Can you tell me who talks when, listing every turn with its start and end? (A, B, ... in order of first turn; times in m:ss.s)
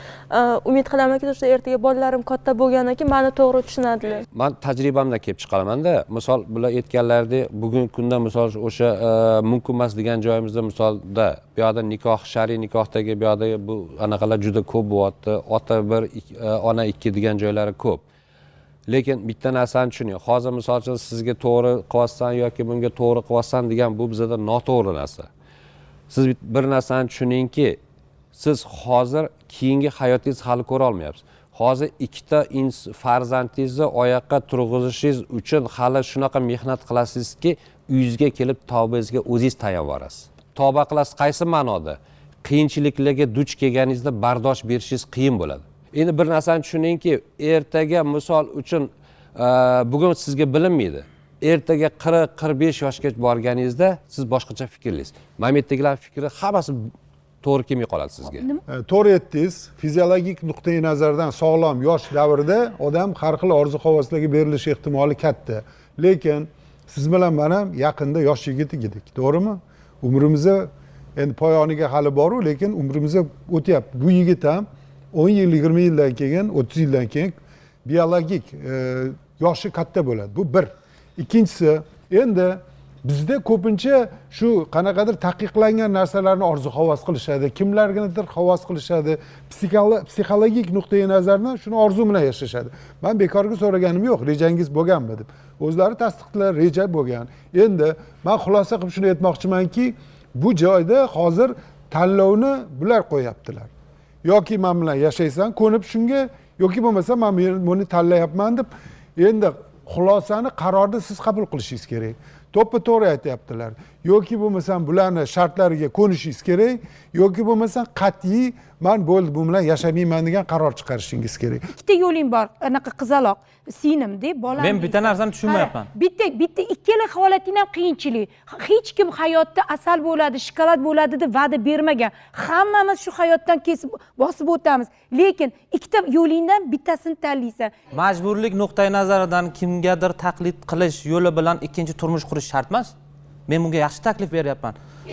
0:00.3-0:04.2 A
0:04.3-0:18.0 B
0:18.9-0:25.3 B
0:26.1-0:27.8 B
0:28.3-0:56.9 B
0:57.4-0:58.4 B
0:58.3-0:58.6 C
0:58.7-1:43.7 D
1:44.2-2:01.7 D
2:01.8-2:17.7 C
2:04.6-2:05.9 E
2:17.9-2:22.9 E
2:23.5-2:24.7 E